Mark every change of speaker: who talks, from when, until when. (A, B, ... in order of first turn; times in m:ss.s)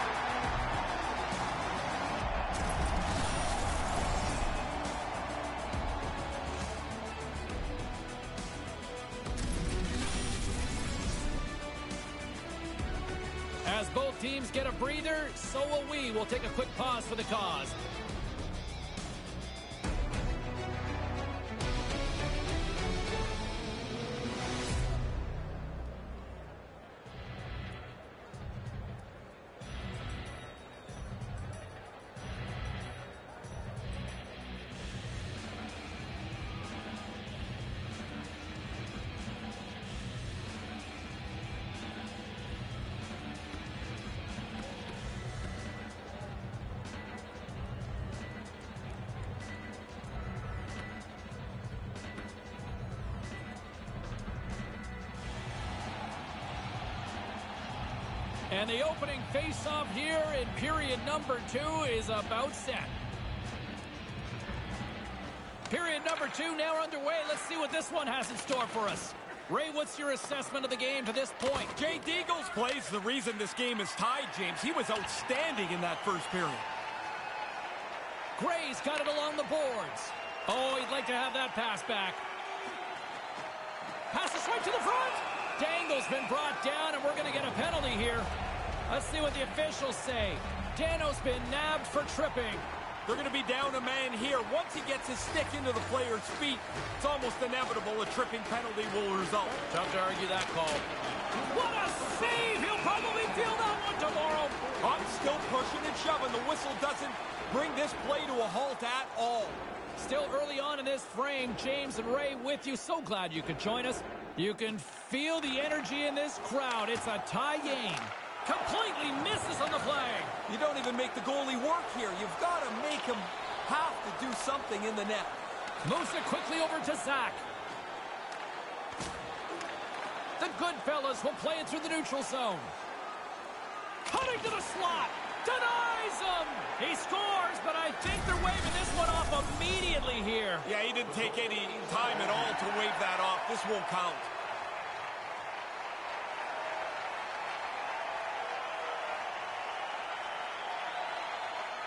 0:13.6-0:17.8 A
0:58.5-1:02.9 A
1:05.7-1:11.7 A
1:11.7-1:16.6 B
1:18.4-1:22.2 A
1:24.1-1:28.3 A
1:28.9-1:32.7 A
1:33.0-1:39.6 B
1:39.7-1:44.6 A
1:44.8-1:49.6 B
1:50.0-2:00.3 A
2:00.5-2:05.4 B
2:05.8-2:07.4 A
2:10.4-2:12.7 A
2:14.1-2:20.7 A
2:20.6-2:24.3 B